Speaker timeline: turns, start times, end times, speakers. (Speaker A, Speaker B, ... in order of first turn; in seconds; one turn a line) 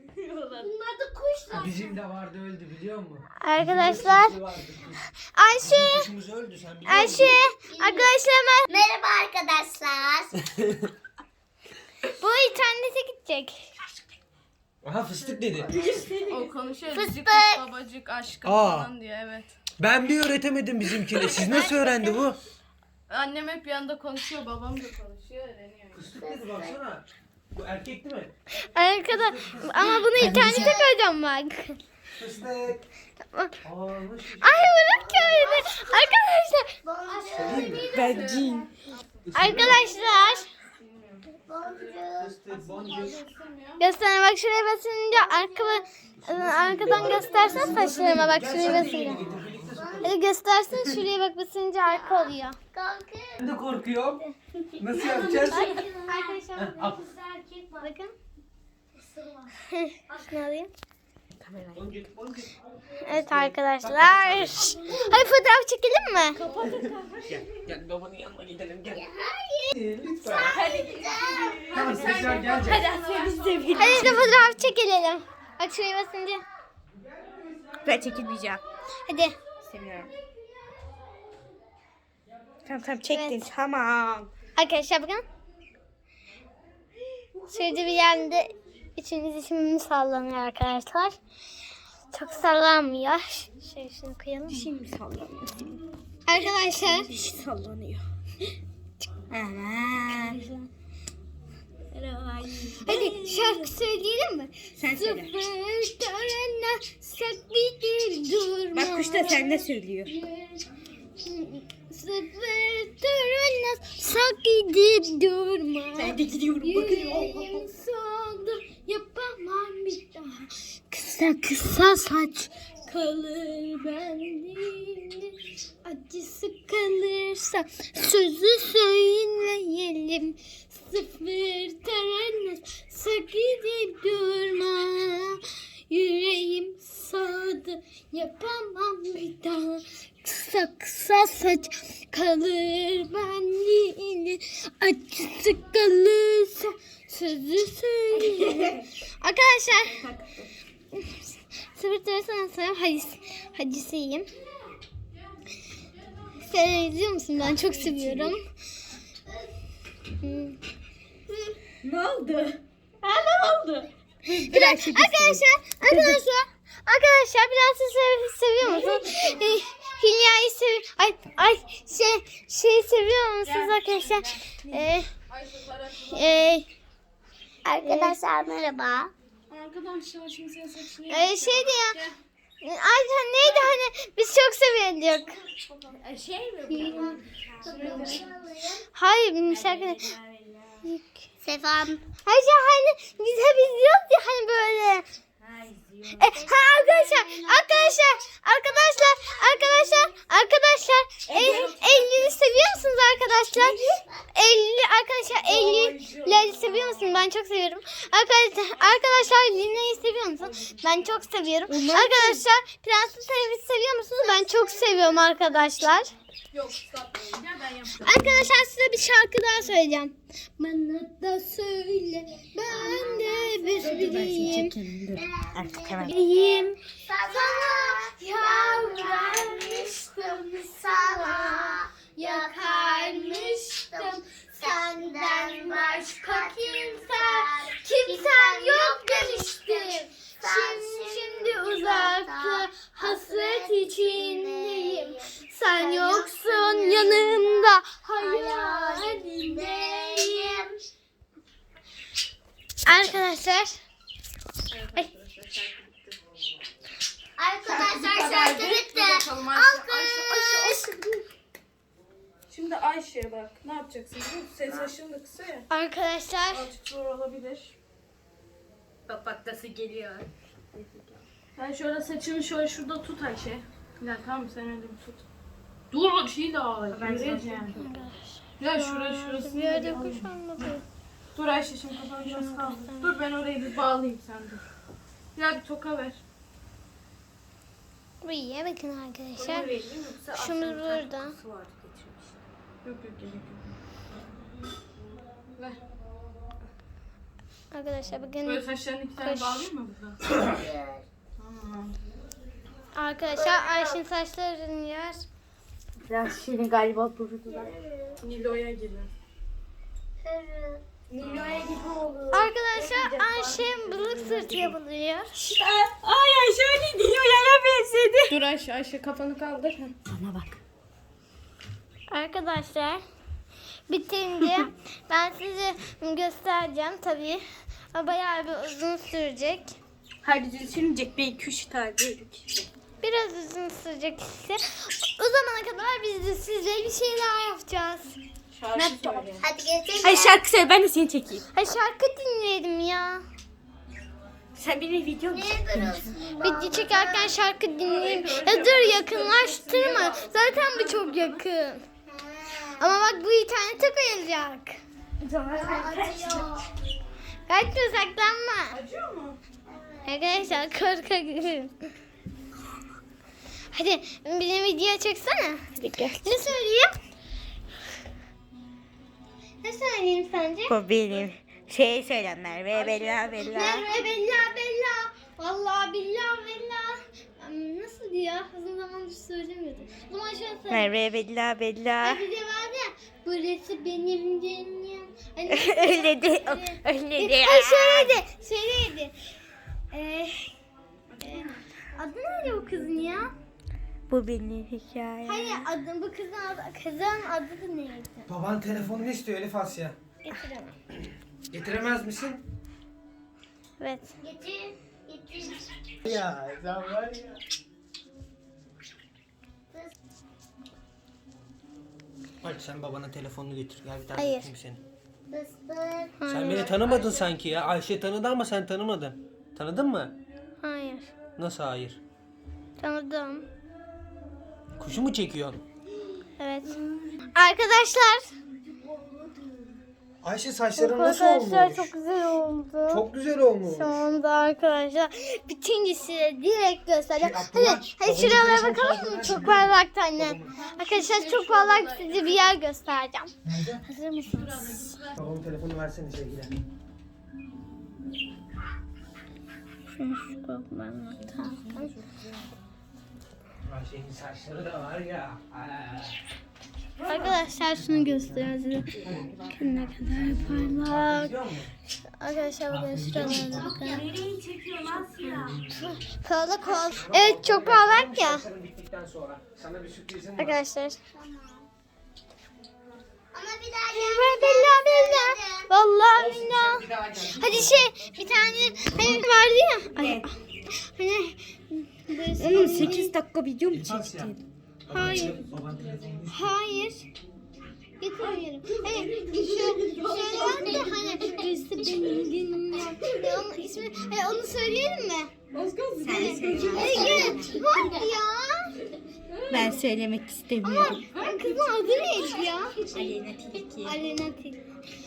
Speaker A: 0.1-0.7
Speaker B: 0.6-2.0
Speaker C: 1.5-5.0
Speaker D: 3.4-4.4
Speaker D: 5.3-6.1
Speaker C: 5.6-7.4
Speaker D: 6.8-8.8
Speaker B: 7.0-8.2
Speaker B: 8.7-10.4
Speaker C: 10.5-10.9
Speaker D: 12.2-13.6
Speaker C: 14.8-15.8
Speaker A: 15.7-16.4
Speaker E: 15.8-19.5
Speaker B: 16.9-17.6
Speaker C: 18.4-18.9
Speaker C: 19.8-22.4
Speaker B: 21.2-22.1
Speaker E: 23.1-26.1
Speaker C: 25.9-28.3
Speaker B: 26.1-26.8
Speaker D: 28.6-31.8
Speaker C: 29.1-30.7
Speaker B: 30.2-30.9
Speaker C: 32.2-32.9
Speaker C: 33.6-34.8
Speaker D: 34.4-36.7
Speaker B: 34.9-35.9
Speaker B: 36.8-38.4
Speaker E: 37.2-39.8
Speaker C: 37.3-38.0
Speaker A: 37.9-38.7
Speaker C: 39.3-39.8
Speaker D: 39.3-40.5
Speaker B: 41.5-43.0
Speaker C: 42.2-43.2
Speaker E: 42.6-43.9
Speaker D: 43.8-49.2
Speaker B: 45.2-45.7
Speaker C: 46.2-50.1
Speaker E: 46.9-47.6
Speaker B: 47.2-47.5
Speaker B: 48.5-50.1
Speaker D: 50.0-52.6
Speaker B: 51.9-53.4
Speaker C: 53.4-54.2
Speaker C: 54.8-55.7
Speaker B: 54.9-57.9
Speaker D: 55.5-56.8
Speaker C: 56.5-57.0
Speaker D: 57.8-58.1
Speaker B: 59.0-59.5
Speaker D: 59.7-60.7
Speaker A: 61.4-62.0
Speaker C: 61.8-64.8
Speaker D: 63.0-66.4
Speaker A: 64.9-65.2
Speaker A: 66.3-67.6
Speaker C: 67.3-69.0
Speaker B: 68.9-72.2
Speaker C: 69.7-70.6
Speaker E: 70.3-74.1
Speaker A: 71.3-74.2
Speaker C: 71.7-72.9
Speaker D: 73.8-76.4
Speaker A: 77.8-78.6
Speaker D: 79.1-79.3
Speaker A: 79.6-80.1
Speaker A: 82.7-84.3
Speaker D: 83.1-83.5
Speaker D: 84.6-85.2
Speaker A: 87.3-88.0
Speaker D: 87.5-91.2
Speaker D: 92.1-94.7
Speaker A: 94.5-95.8
Speaker D: 96.3-97.1
Speaker A: 96.7-98.0
Speaker A: 99.3-100.4
Speaker D: 100.1-100.7
Speaker A: 101.9-103.7
Speaker D: 102.8-110.7
Speaker A: 104.8-105.4
Speaker A: 108.7-110.1
Speaker D: 111.2-150.0
Speaker A: 116.0-117.7
Speaker A: 148.1-148.9
Speaker A: 149.8-150.5
Speaker D: 150.9-154.3
Speaker D: 156.4-158.4
Speaker A: 157.4-158.3
Speaker D: 160.1-160.6
Speaker A: 161.7-166.2
Speaker D: 164.5-175.1
Speaker A: 168.6-169.3
Speaker E: 173.4-174.6
Speaker E: 175.3-176.5
Speaker D: 176.1-176.7
Speaker B: 177.7-179.1
Speaker D: 177.8-178.2
Speaker E: 179.5-182.2
Speaker D: 181.1-182.0
Speaker D: 182.6-185.4
Speaker A: 185.8-188.3
Speaker D: 186.7-187.2
Speaker B: 186.8-188.8
Speaker E: 187.7-188.2
Speaker D: 188.9-190.1
Speaker A: 189.5-190.9
Speaker D: 190.8-191.2
Speaker B: 191.4-192.1
Speaker D: 192.2-195.1
Speaker A: 195.4-196.4
Speaker D: 196.2-203.8
Speaker B: 196.3-198.0
Speaker B: 199.1-199.6
Speaker A: 201.3-202.4
Speaker E: 201.4-201.7
Speaker A: 203.5-204.0
Speaker D: 204.3-216.1
Speaker A: 205.4-207.1
Speaker A: 211.7-212.4
Speaker B: 214.2-215.3
Speaker E: 216.5-218.3
Speaker D: 218.0-224.8
Speaker B: 222.6-224.6
Speaker A: 223.8-226.1
Speaker B: 225.2-226.4
Speaker D: 226.0-250.7
Speaker B: 227.0-250.7
Speaker D: 252.8-253.8
Speaker E: 254.7-256.2
Speaker B: 257.4-260.9
Speaker E: 257.6-261.2
Speaker E: 262.5-265.7
Speaker D: 265.7-266.7
Speaker E: 266.5-267.8
Speaker A: 269.1-271.1
Speaker E: 271.6-275.2
Speaker E: 275.9-277.8
Speaker A: 276.9-278.1
Speaker D: 277.8-280.8
Speaker E: 278.6-280.3
Speaker E: 281.4-284.6
Speaker D: 282.2-283.1
Speaker E: 285.4-286.2
Speaker D: 288.2-289.7
Speaker A: 289.4-292.4
Speaker E: 289.5-289.7
Speaker D: 290.3-291.4
Speaker E: 292.8-293.8
Speaker D: 297.7-298.6
Speaker E: 298.4-300.4
Speaker D: 299.2-299.6
Speaker B: 300.4-301.1
Speaker E: 301.4-302.0
Speaker D: 302.9-305.2
Speaker B: 303.3-304.0
Speaker A: 306.1-307.7
Speaker B: 307.5-308.2
Speaker E: 308.2-309.1
Speaker B: 310.2-310.8
Speaker A: 311.1-314.8
Speaker D: 312.3-315.3
Speaker A: 315.4-318.4
Speaker E: 318.3-319.9
Speaker A: 320.1-320.6
Speaker D: 322.1-323.0
Speaker D: 323.9-329.7
Speaker A: 324.4-324.7
Speaker A: 330.2-332.7
Speaker D: 333.0-338.2
Speaker E: 338.5-339.4
Speaker A: 338.7-339.4
Speaker B: 339.4-340.4
Speaker A: 340.0-341.5
Speaker D: 341.5-343.2
Speaker A: 344.6-346.2
Speaker B: 345.3-347.3
Speaker D: 346.4-351.9
Speaker E: 347.8-351.4
Speaker B: 352.1-353.0
Speaker D: 352.8-354.8
Speaker A: 355.2-356.6
Speaker B: 355.5-356.7
Speaker D: 357.5-358.8
Speaker E: 358.7-359.4
Speaker B: 359.7-360.4
Speaker D: 360.1-361.8
Speaker D: 363.7-365.6
Speaker A: 365.8-366.5
Speaker D: 366.2-366.9
Speaker D: 369.6-370.8
Speaker A: 370.7-373.9
Speaker E: 372.7-373.4
Speaker D: 373.4-380.9
Speaker A: 380.7-382.2
Speaker D: 382.0-389.1
Speaker A: 385.5-388.1
Speaker D: 389.9-390.5
Speaker E: 391.1-391.6
Speaker D: 391.2-393.3
Speaker A: 394.1-395.6
Speaker D: 395.2-398.3
Speaker C: 398.3-400.0
Speaker D: 400.2-400.8
Speaker C: 401.5-402.4
Speaker D: 403.8-404.2
Speaker B: 404.2-405.6
Speaker C: 406.1-407.4
Speaker C: 412.4-414.8
Speaker D: 414.2-414.5
Speaker B: 415.3-416.2
Speaker D: 416.2-416.8
Speaker C: 416.3-420.1
Speaker D: 420.6-421.1
Speaker C: 421.4-422.0
Speaker D: 422.8-423.4
Speaker C: 424.8-425.6
Speaker D: 426.4-426.8
Speaker D: 427.4-428.3
Speaker A: 428.9-429.4
Speaker C: 430.2-431.9
Speaker D: 430.8-433.1
Speaker C: 432.9-434.0
Speaker D: 433.7-443.3
Speaker C: 437.2-440.6
Speaker E: 440.5-442.6
Speaker C: 443.4-443.8
Speaker D: 443.8-444.9
Speaker E: 444.2-445.2
Speaker C: 445.2-446.6
Speaker D: 449.9-451.9
Speaker A: 451.4-452.4
Speaker C: 453.6-456.2
Speaker A: 457.0-457.5
Speaker D: 457.0-459.0
Speaker C: 457.8-458.5
Speaker A: 459.0-459.9
Speaker C: 459.0-459.3
Speaker D: 459.5-461.4
Speaker C: 460.3-461.7
Speaker D: 462.2-464.1
Speaker C: 462.7-463.8
Speaker A: 463.2-465.6
Speaker B: 463.5-464.0
Speaker D: 465.2-468.5
Speaker C: 465.5-465.8
Speaker C: 466.9-470.6
Speaker D: 470.4-471.0
Speaker B: 471.1-471.7
Speaker B: 473.3-475.7
Speaker D: 473.9-483.1
Speaker C: 476.1-477.8
Speaker A: 480.0-480.2
Speaker A: 482.4-484.4
Speaker C: 483.7-484.4
Speaker C: 484.9-486.6
Speaker D: 484.9-485.4
Speaker E: 485.2-486.2
Speaker D: 486.3-487.1
Speaker D: 488.0-495.3
Speaker E: 488.2-491.4
Speaker A: 489.3-491.4
Speaker B: 490.1-490.7
Speaker E: 495.5-497.7
Speaker A: 496.0-497.5
Speaker D: 496.1-498.7
Speaker B: 496.5-498.1
Speaker E: 499.3-499.8
Speaker A: 499.5-501.1
Speaker D: 500.6-502.8
Speaker E: 500.9-502.5
Speaker A: 502.9-504.0
Speaker D: 503.6-504.6